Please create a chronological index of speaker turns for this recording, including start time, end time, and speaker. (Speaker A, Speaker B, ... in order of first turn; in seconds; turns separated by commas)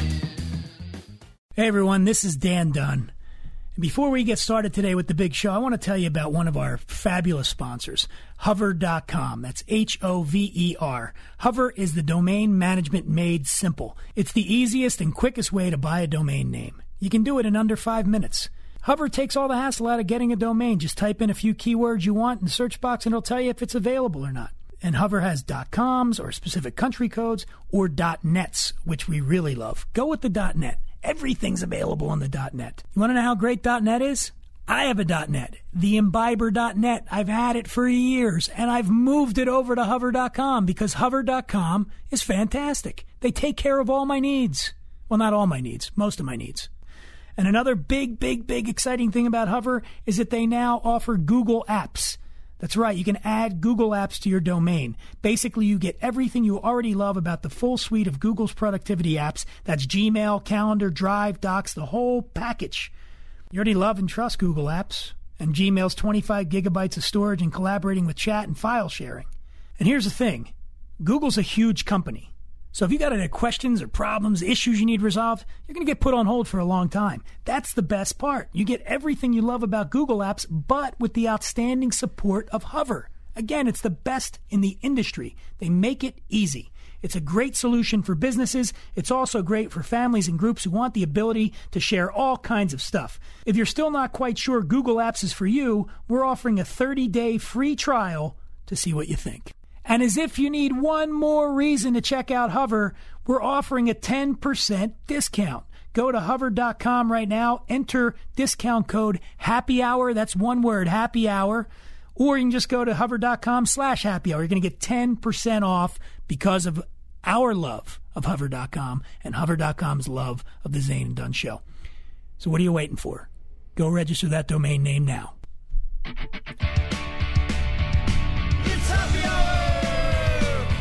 Speaker A: 1.6-3.1, Speaker A: 3.8-46.7, Speaker A: 47.4-62.9, Speaker A: 63.5-69.2, Speaker A: 69.8-121.6, Speaker A: 122.4-125.3